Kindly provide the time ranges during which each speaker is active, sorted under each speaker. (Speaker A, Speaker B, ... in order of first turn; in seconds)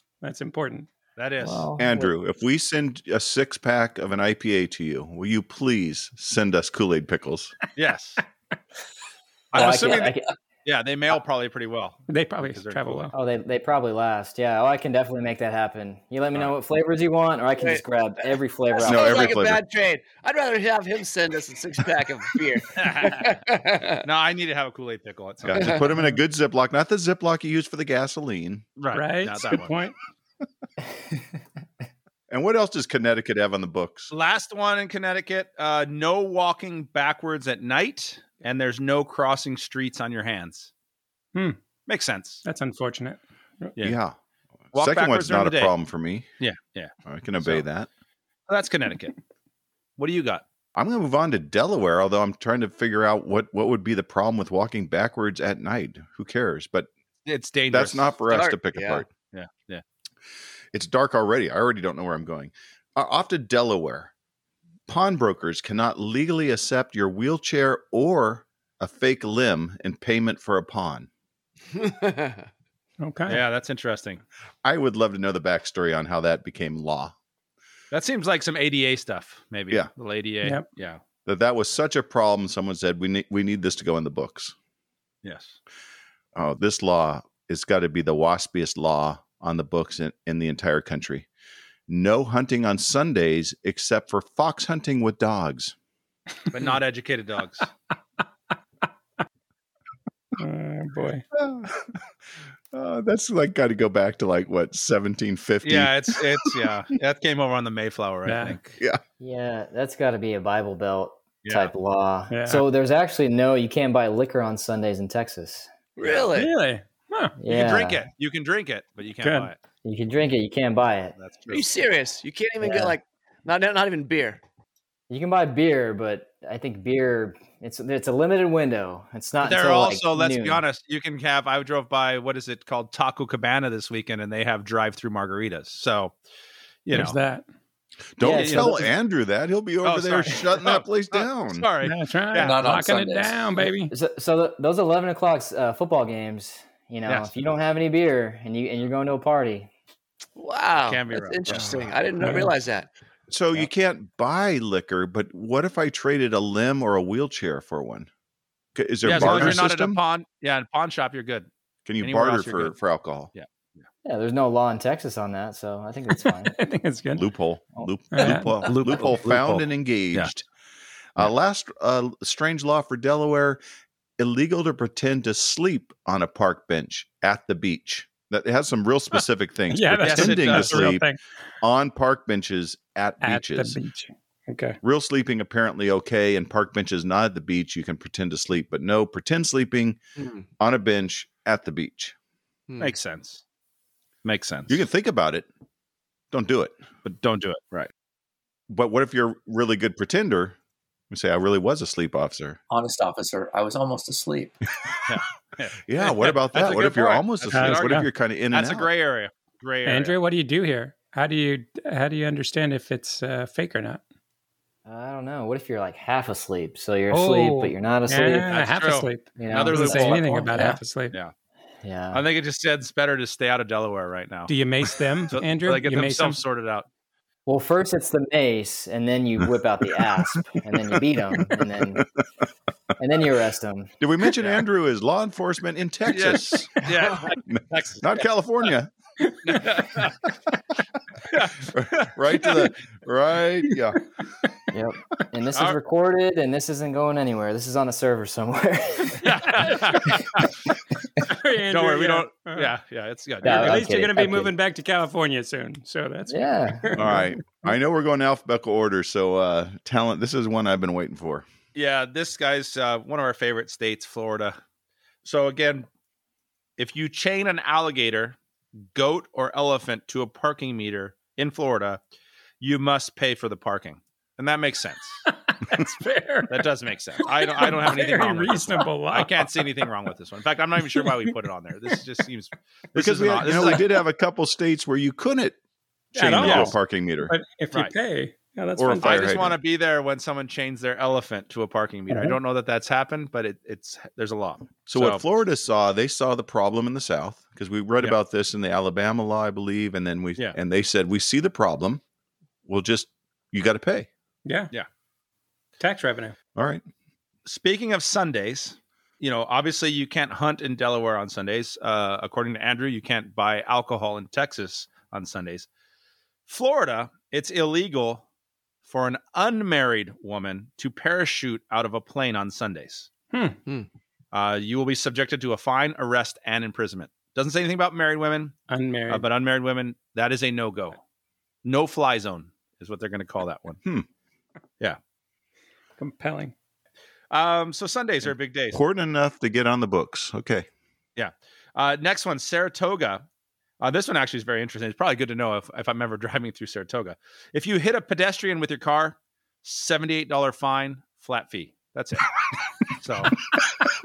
Speaker A: 0.2-0.9, 12.1-13.1, 28.9-29.9, 42.4-43.7, 73.0-73.4, 100.4-101.2, 108.2-108.6, 112.3-112.6, 116.3-117.3, 119.2-119.5, 136.9-137.4, 141.8-143.9, 152.2-152.5, 159.1-159.6, 166.2-167.3, 168.1-168.5, 179.7-181.2, 183.2-184.8, 207.5-208.1, 209.8-214.0, 217.1-221.2, 224.5-226.4, 249.2-250.1, 251.2-252.7, 253.4-257.2, 275.3-276.7, 277.2-279.9, 280.8-281.2, 283.5-283.8, 286.1-289.4, 292.1-292.4, 304.4-304.7, 305.8-306.4, 323.3-323.6, 328.7-329.2, 336.0-336.5
Speaker B: 1.2-1.7, 7.8-8.2, 9.5-10.1, 10.6-13.1, 22.8-23.4, 24.0-25.8, 28.8-29.7, 34.1-40.7, 41.9-42.4, 44.7-45.7, 46.4-47.6, 48.5-49.1, 50.0-50.4, 57.2-58.1, 59.3-59.8, 73.3-74.2, 77.9-81.0, 85.2-85.6, 96.5-97.7, 105.6-108.8, 111.4-111.7, 117.5-119.6, 121.2-121.7, 129.4-136.1, 136.8-137.2, 138.3-138.8, 139.8-142.6, 150.8-151.7, 159.0-161.5, 162.0-162.7, 163.3-163.8, 168.6-170.3, 180.0-181.0, 192.8-193.4, 194.2-194.8, 197.0-197.9, 205.1-210.2, 218.5-221.3, 222.1-224.6, 225.3-226.9, 236.1-238.2, 239.4-240.2, 241.3-242.7, 249.2-250.5, 251.7-253.8, 261.7-264.6, 265.2-265.9, 266.8-268.4, 268.9-272.0, 272.6-275.2, 276.5-283.9, 286.4-286.7, 289.0-295.2, 307.4-315.7, 316.5-318.2, 318.8-323.1, 324.3-328.6, 329.1-331.0, 331.6-333.8, 337.3-338.8, 341.2-343.2, 343.8-352.3, 352.9-353.4
Speaker C: 1.4-2.1, 9.5-10.3, 13.1-19.4, 109.2-115.7, 117.4-118.0, 119.8-121.2, 122.6-123.0, 125.1-130.6, 138.2-138.9, 143.9-149.7, 164.0-166.5, 214.8-218.5, 219.4-220.5, 221.8-222.2, 227.4-232.0, 233.0-233.9, 244.7-249.2, 253.4-254.5, 256.3-257.2
Speaker D: 1.8-7.5, 18.8-19.6, 25.4-28.7, 32.3-34.1, 43.8-44.2, 44.7-46.2, 47.0-47.9, 50.8-56.9, 57.7-59.1, 60.7-64.1, 64.9-71.1, 74.6-77.1, 81.2-84.5, 86.3-91.3, 91.9-95.7, 101.3-102.0, 102.7-106.5, 138.2-141.7, 151.5-152.0, 153.3-158.1, 158.7-160.0, 161.8-163.3, 167.2-170.4, 171.2-173.6, 174.2-181.1, 181.6-183.8, 184.8-190.0, 190.6-192.1, 194.7-195.5, 196.3-196.8, 198.7-200.6, 201.1-202.6, 205.9-208.9, 230.7-232.0, 234.0-236.8, 237.5-238.9, 241.7-244.0, 256.9-261.4, 282.9-285.6, 286.1-287.3, 288.8-289.6, 294.9-302.0, 302.6-304.1, 306.6-306.8, 338.7-340.7
Speaker E: 18.7-24.0, 25.6-25.8, 58.3-59.0, 71.8-72.5, 116.0-116.5, 121.5-124.4, 150.4-152.9, 190.2-190.4, 192.7-192.9
Speaker F: 142.3-143.6, 202.7-204.6